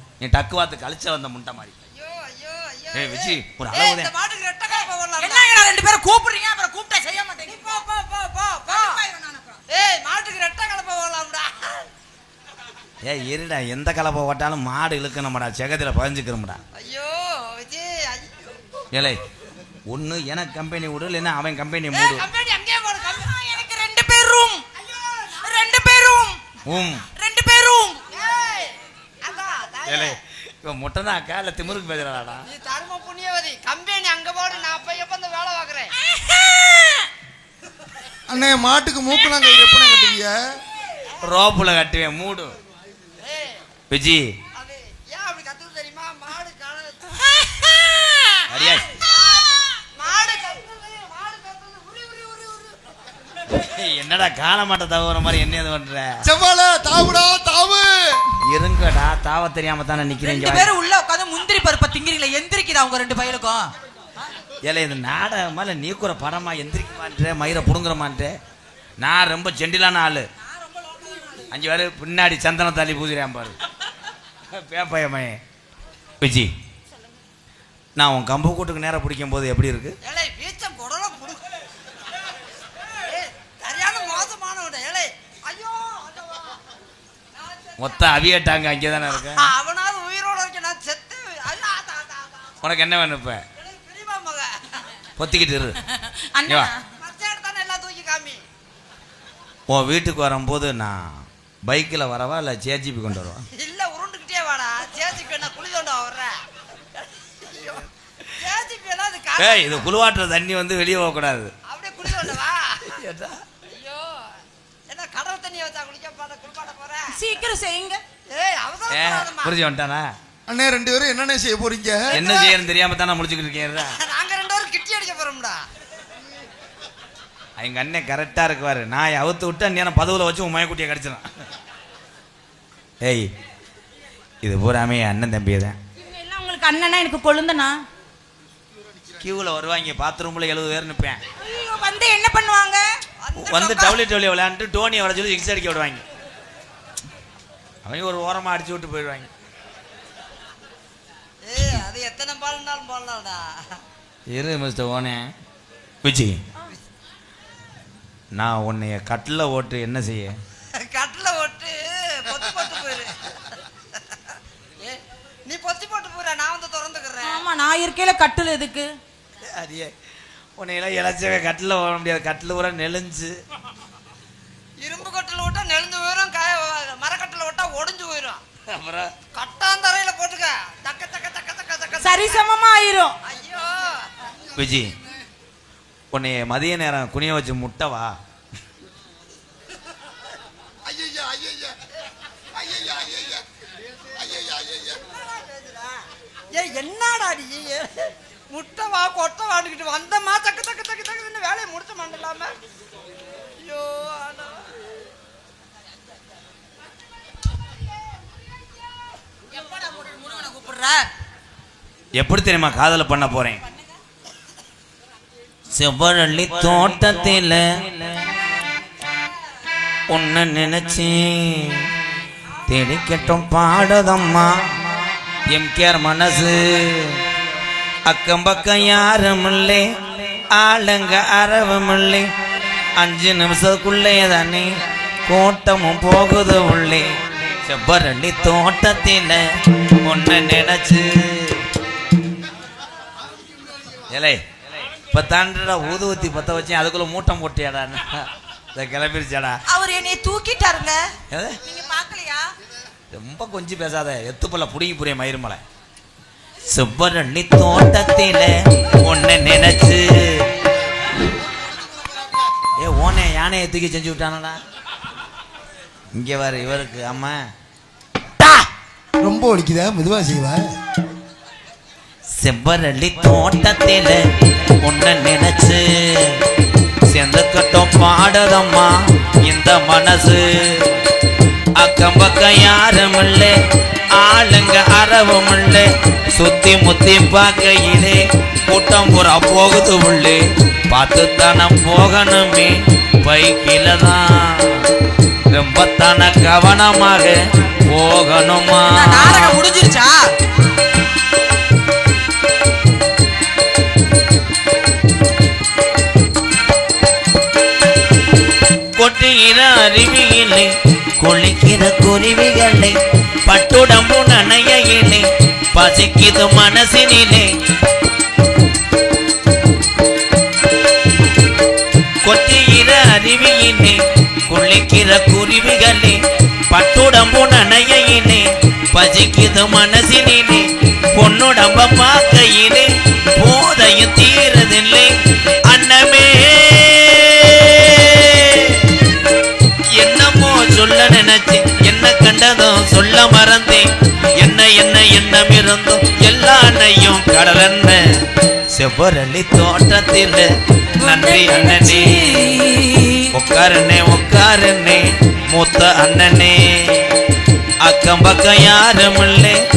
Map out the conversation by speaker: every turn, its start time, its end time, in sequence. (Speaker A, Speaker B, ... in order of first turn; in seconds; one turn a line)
Speaker A: 0.2-1.7
Speaker B: 1.9-5.5
Speaker A: 2.9-4.1
Speaker C: 4.7-7.8
Speaker B: 7.5-9.0
Speaker C: 8.7-9.6
Speaker B: 9.7-11.9
Speaker A: 13.0-16.6
Speaker B: 16.8-18.6
Speaker A: 18.9-19.2
Speaker A: 19.9-22.3
Speaker B: 21.9-23.3
Speaker C: 23.1-24.6
Speaker B: 24.7-25.7
Speaker C: 25.4-26.4
Speaker A: 26.6-27.1
Speaker C: 27.1-28.0
Speaker B: 28.1-30.2
Speaker A: 29.9-32.5
Speaker B: 32.5-35.9
Speaker C: 36.0-37.1
Speaker D: 38.3-40.3
Speaker A: 41.2-42.5
Speaker B: 43.2-43.6
Speaker A: 43.9-44.4
Speaker B: 44.5-47.2
Speaker C: 47.4-48.4
Speaker A: 48.5-48.9
Speaker B: 49.0-52.9
Speaker A: 53.5-56.2
Speaker D: 56.2-58.2
Speaker A: 58.5-60.7
Speaker C: 60.2-63.7
Speaker A: 64.6-68.4
Speaker A: 69.0-70.3
Speaker C: 71.0-71.4
Speaker A: 71.5-73.6
Speaker A: 74.5-75.4
Speaker A: 76.2-76.5
Speaker A: 78.0-80.0
Speaker B: 80.0-81.5
Speaker B: 83.0-86.6
Speaker B: 87.3-88.1
Speaker A: 87.8-89.5
Speaker B: 89.1-92.5
Speaker A: 92.6-93.4
Speaker B: 93.5-94.9
Speaker A: 95.2-95.8
Speaker C: 95.9-96.8
Speaker B: 97.0-98.4
Speaker A: 99.7-103.5
Speaker B: 103.5-106.4
Speaker B: 107.0-109.9
Speaker A: 109.4-111.5
Speaker B: 111.7-112.9
Speaker A: 112.9-113.4
Speaker B: 113.7-114.4
Speaker B: 114.9-117.2
Speaker C: 117.1-118.0
Speaker B: 118.3-119.5
Speaker A: 118.9-120.1
Speaker D: 120.5-122.1
Speaker A: 122.1-123.9
Speaker B: 122.1-122.6
Speaker B: 124.0-125.6
Speaker A: 127.6-131.3
Speaker A: 133.0-133.3
Speaker A: 134.4-135.8
Speaker C: 136.0-137.8
Speaker A: 139.2-141.2
Speaker C: 141.4-142.9
Speaker B: 143.2-144.0
Speaker A: 143.4-146.0
Speaker A: 147.8-149.3
Speaker B: 151.4-153.8
Speaker A: 154.3-155.3
Speaker A: 156.0-156.4
Speaker A: 158.3-160.3
Speaker B: 160.7-163.3
Speaker B: 164.8-167.4
Speaker C: 167.2-168.9
Speaker A: 169.4-169.9
Speaker A: 170.6-173.3
Speaker B: 174.8-178.4
Speaker A: 178.7-179.1
Speaker B: 179.3-182.4
Speaker C: 182.0-183.2
Speaker B: 183.2-184.1
Speaker A: 184.6-184.9
Speaker A: 186.1-188.1
Speaker B: 190.9-191.7
Speaker B: 192.5-193.4
Speaker B: 194.2-202.5
Speaker B: 203.6-204.7
Speaker C: 209.6-211.1
Speaker A: 212.2-213.6
Speaker A: 215.7-217.8
Speaker A: 220.1-221.8
Speaker A: 222.7-224.8
Speaker A: 225.5-227.2
Speaker A: 228.1-229.9
Speaker A: 230.5-232.3
Speaker A: 232.9-234.7
Speaker A: 235.2-239.4
Speaker A: 240.0-241.6
Speaker A: 244.1-244.4
Speaker A: 245.1-249.6
Speaker C: 249.7-252.5
Speaker A: 251.3-251.6
Speaker A: 253.1-255.6
Speaker A: 256.7-260.5
Speaker A: 262.8-264.6
Speaker A: 266.1-267.4
Speaker D: 268.4-268.6
Speaker D: 269.2-270.7
Speaker A: 272.4-274.2
Speaker A: 274.8-276.4
Speaker A: 277.1-280.9
Speaker A: 281.8-283.6
Speaker A: 284.1-294.9
Speaker A: 295.5-299.6
Speaker C: 298.9-300.3
Speaker A: 308.9-317.5
Speaker A: 322.2-326.2
Speaker A: 326.7-335.1
Speaker A: 335.7-338.9
Speaker A: 339.9-348.0
Speaker A: 348.7-352.5
Speaker C: 351.0-353.2
Speaker A: 353.3-357.1
Speaker A: 357.8-359.6